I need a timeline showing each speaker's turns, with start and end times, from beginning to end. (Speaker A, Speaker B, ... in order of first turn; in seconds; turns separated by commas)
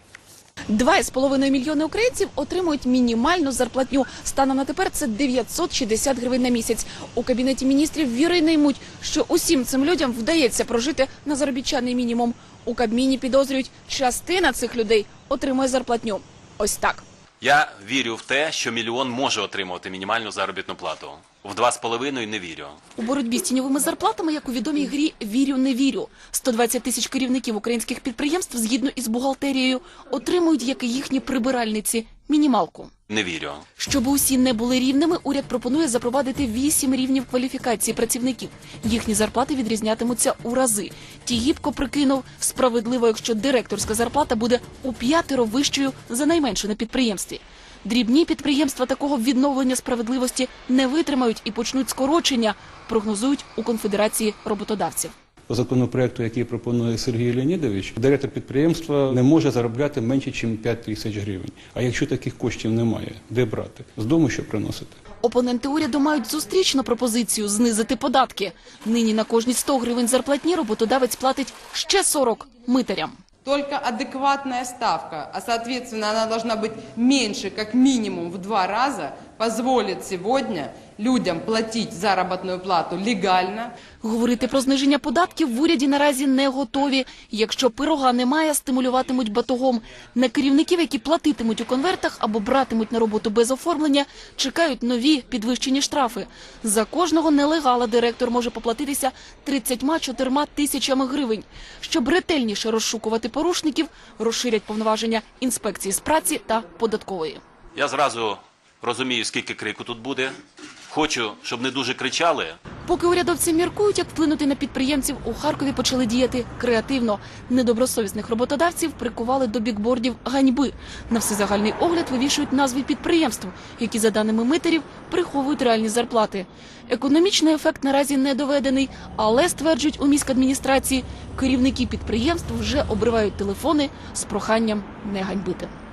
Speaker A: 0.7-17.0, Speaker B: 17.4-22.8, Speaker A: 23.0-32.9, Speaker B: 33.1-33.6, Speaker A: 33.8-55.1, Speaker C: 55.5-65.0, Speaker A: 65.2-73.2, Speaker D: 73.5-83.7, Speaker A: 84.0-107.4, Speaker B: 107.8-112.6, Speaker A: 112.9-135.7